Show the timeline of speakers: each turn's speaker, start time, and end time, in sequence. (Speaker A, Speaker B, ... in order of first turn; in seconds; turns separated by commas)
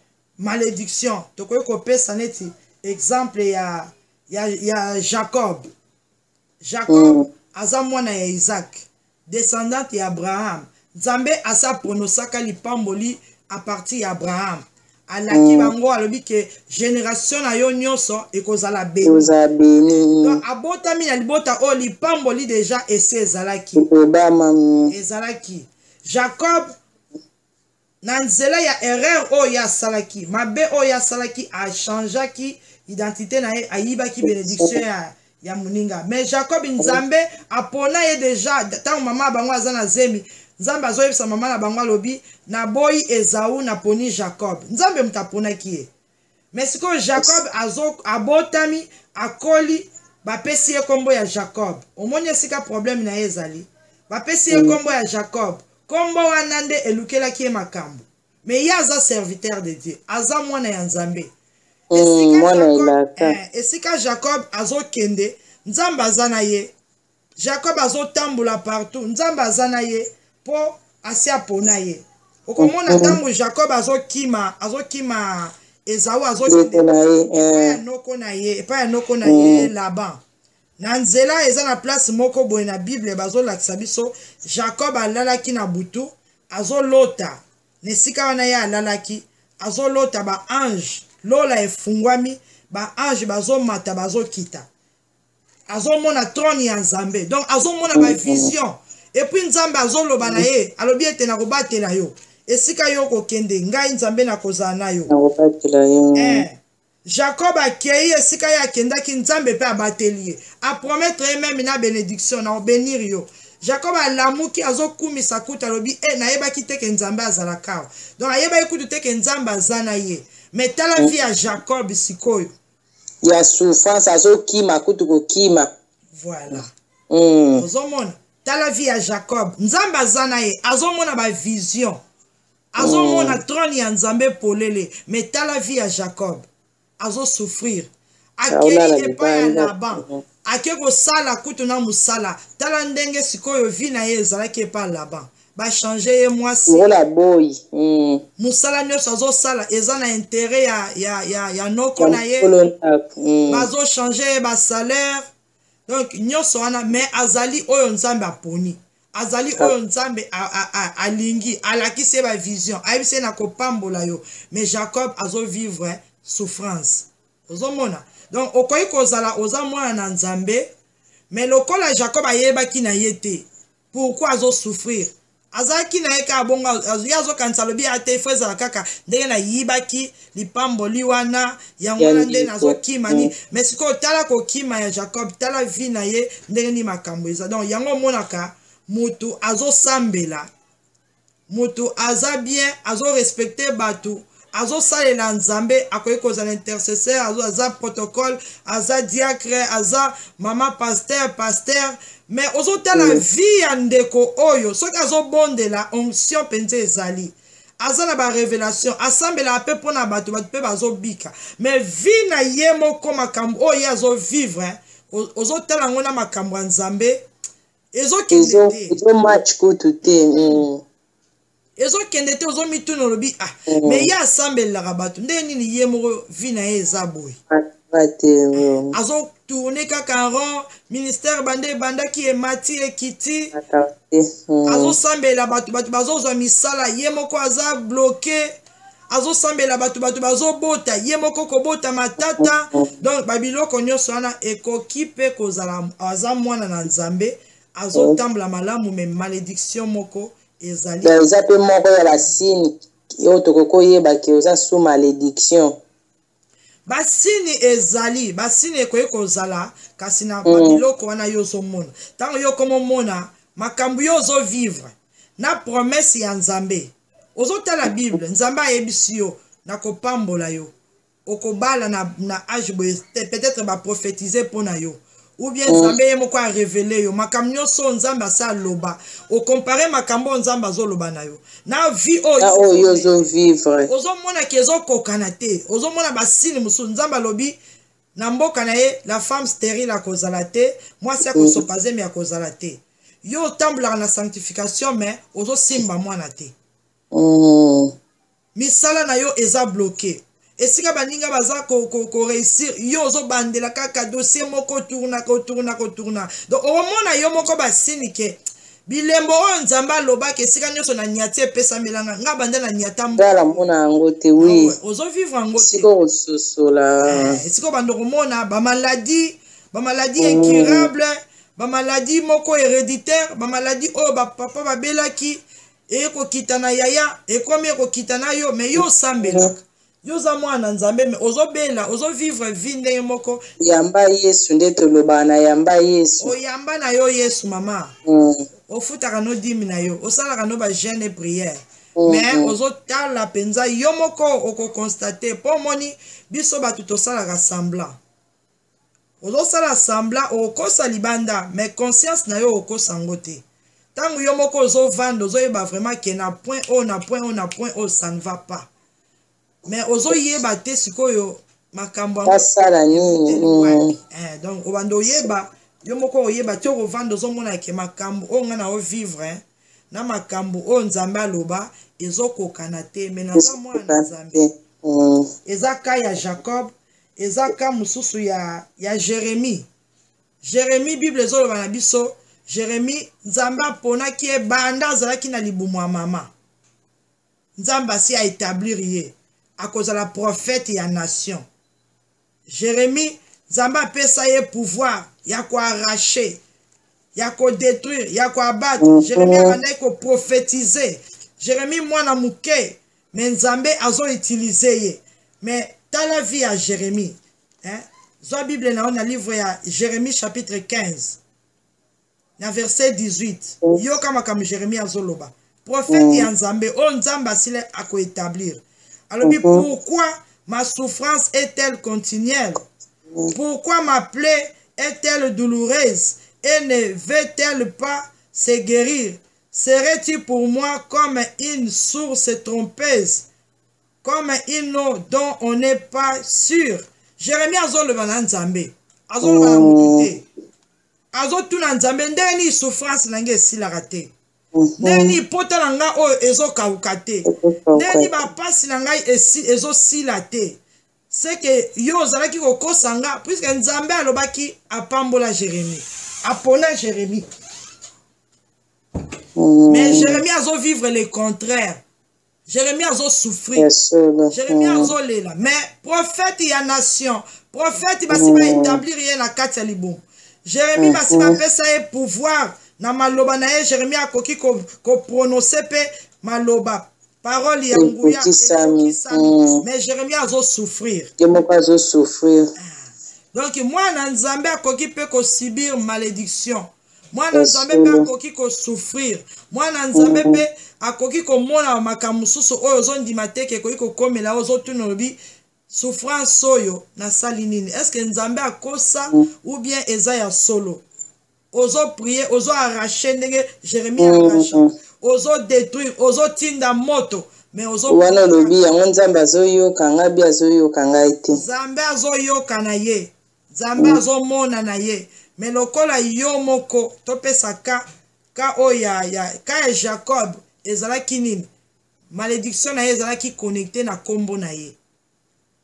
Speaker A: 0.4-5.7, Speaker A: 6.6-19.3, Speaker B: 6.9-7.3, Speaker B: 15.3-15.7, Speaker B: 19.0-20.4, Speaker A: 20.2-23.9, Speaker B: 23.8-24.9, Speaker A: 24.9-26.7, Speaker A: 28.0-45.9, Speaker B: 34.2-34.8, Speaker A: 46.5-61.3, Speaker B: 54.5-54.8, Speaker B: 61.9-63.4, Speaker A: 61.9-66.7, Speaker A: 67.4-80.2, Speaker B: 72.6-73.2, Speaker B: 76.5-77.8, Speaker B: 79.2-79.7, Speaker A: 80.8-94.7, Speaker A: 95.7-105.1, Speaker B: 97.9-98.5, Speaker B: 105.1-106.4, Speaker A: 106.1-122.5, Speaker B: 123.2-125.7, Speaker A: 126.2-126.7, Speaker B: 126.5-127.6, Speaker A: 127.5-132.0, Speaker A: 132.7-136.4, Speaker B: 132.8-133.4, Speaker A: 137.0-146.9, Speaker B: 138.5-140.2, Speaker B: 146.7-148.2, Speaker A: 148.4-152.6, Speaker B: 152.0-153.7, Speaker A: 153.5-155.2, Speaker A: 155.9-170.7, Speaker A: 171.3-190.5, Speaker B: 182.0-183.3, Speaker A: 191.5-217.2, Speaker B: 202.9-203.2, Speaker A: 217.9-219.0, Speaker B: 218.3-220.8, Speaker A: 221.8-227.4, Speaker B: 223.7-224.1, Speaker B: 227.5-228.9, Speaker A: 228.6-233.5, Speaker B: 233.5-235.0, Speaker A: 234.7-238.5, Speaker A: 239.1-251.3, Speaker B: 242.4-242.9, Speaker B: 247.9-248.2, Speaker B: 251.0-255.8, Speaker A: 252.1-252.5, Speaker A: 256.9-270.7, Speaker B: 260.4-260.8, Speaker A: 271.2-283.1, Speaker B: 275.7-276.0, Speaker B: 282.4-283.9, Speaker A: 283.9-287.6, Speaker A: 288.1-296.5, Speaker B: 291.3-291.6, Speaker B: 297.1-297.9, Speaker A: 298.6-313.6, Speaker B: 313.2-314.7, Speaker A: 314.4-315.9, Speaker B: 315.6-317.4, Speaker A: 317.1-333.4, Speaker B: 320.2-320.9, Speaker B: 328.8-329.5, Speaker B: 333.6-336.3, Speaker A: 336.2-337.9, Speaker B: 338.1-338.4, Speaker A: 338.7-348.0, Speaker B: 342.0-342.5, Speaker A: 349.2-353.4, Speaker A: 353.9-358.7, Speaker A: 359.6-374.4, Speaker B: 362.2-363.9, Speaker B: 373.3-375.3, Speaker A: 375.4-379.7, Speaker A: 380.4-386.3, Speaker A: 387.6-391.4, Speaker A: 392.5-396.4, Speaker A: 397.1-411.2, Speaker B: 398.8-399.6, Speaker A: 412.4-422.6, Speaker B: 415.9-416.3, Speaker B: 419.2-419.6, Speaker A: 423.3-433.3, Speaker A: 434.0-440.2, Speaker B: 439.2-440.1, Speaker A: 441.1-444.1, Speaker B: 444.5-445.2, Speaker A: 444.8-450.6, Speaker B: 447.2-448.2, Speaker A: 451.1-457.2, Speaker B: 459.4-460.2, Speaker A: 459.7-461.8, Speaker A: 462.5-463.7, Speaker B: 463.6-464.9, Speaker A: 464.3-481.1, Speaker B: 468.1-468.8, Speaker B: 470.8-471.4, Speaker B: 477.7-479.6, Speaker B: 481.2-482.5, Speaker A: 482.6-495.2, Speaker B: 487.3-488.1, Speaker B: 489.9-490.4, Speaker A: 495.7-500.8, Speaker A: 501.5-508.6, Speaker B: 504.0-504.7, Speaker B: 507.9-511.4, Speaker A: 511.3-517.8, Speaker B: 513.8-514.0, Speaker A: 518.3-521.5, Speaker A: 522.1-524.8